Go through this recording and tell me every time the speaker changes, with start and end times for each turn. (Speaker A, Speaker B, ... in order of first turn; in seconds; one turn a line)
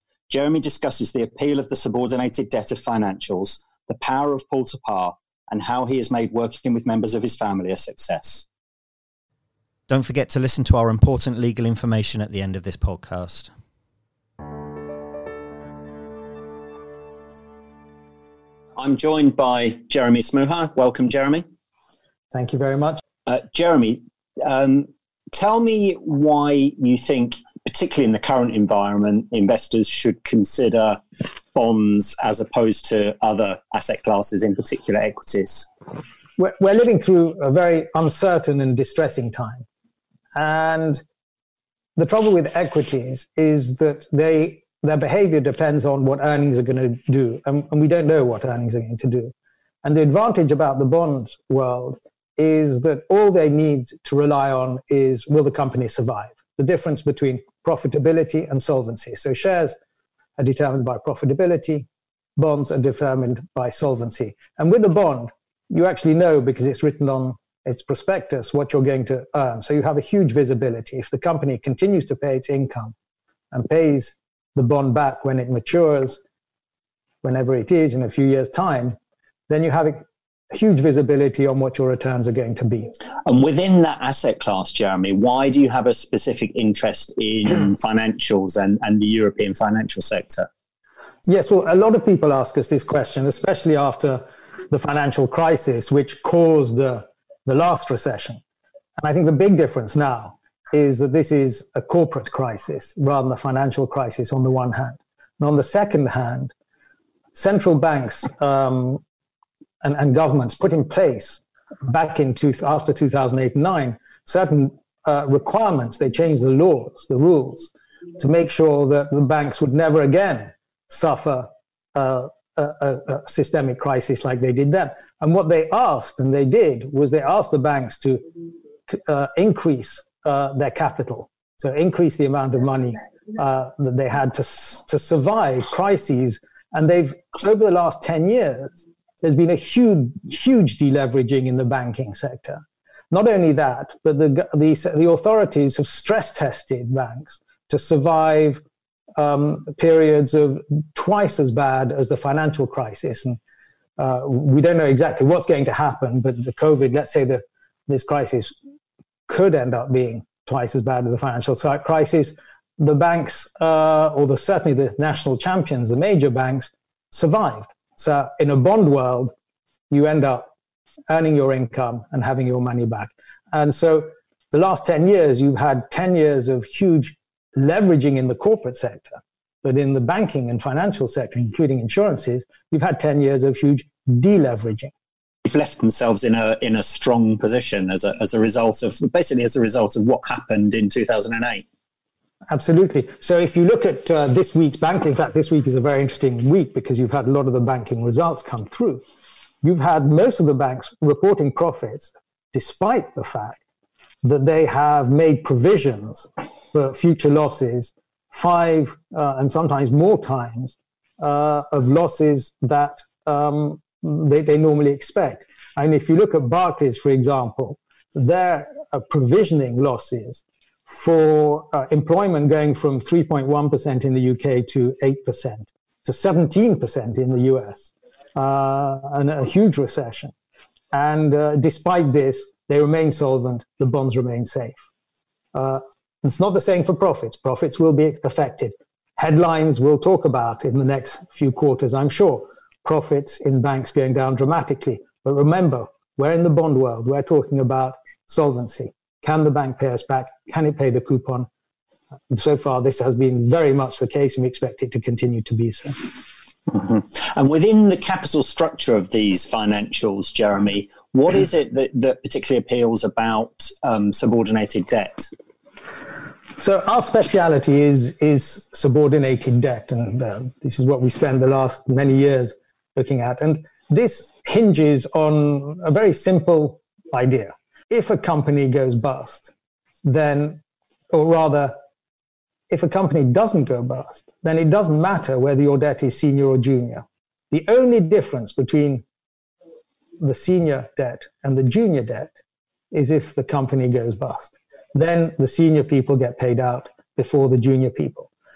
Speaker A: 0.3-8.5
Speaker B: 9.9-13.5
Speaker A: 11.9-12.2
Speaker A: 18.8-21.4
Speaker C: 22.3-23.0
Speaker A: 23.3-31.0
Speaker A: 31.5-35.7
Speaker C: 36.4-39.7
Speaker C: 40.4-41.0
Speaker C: 42.0-59.8
Speaker C: 60.4-73.0
Speaker C: 73.5-76.2
Speaker C: 77.2-79.0
Speaker C: 79.5-82.9
Speaker A: 83.3-90.5
Speaker C: 91.3-98.4
Speaker C: 99.0-106.5
Speaker C: 107.3-109.0
Speaker C: 109.8-128.3
Speaker C: 128.9-148.6
Speaker C: 149.2-153.4
Speaker C: 154.0-158.5
Speaker C: 159.3-169.3
Speaker C: 169.9-170.5
Speaker C: 171.1-184.9
Speaker A: 185.4-191.7
Speaker C: 192.5-199.0
Speaker C: 199.6-203.6
Speaker C: 204.2-230.3
Speaker C: 230.9-234.8
Speaker C: 235.5-251.5
Speaker C: 252.3-256.1
Speaker A: 256.7-265.3
Speaker C: 266.6-279.5
Speaker C: 280.1-281.8
Speaker C: 282.7-289.0
Speaker C: 290.2-292.3
Speaker C: 292.9-298.3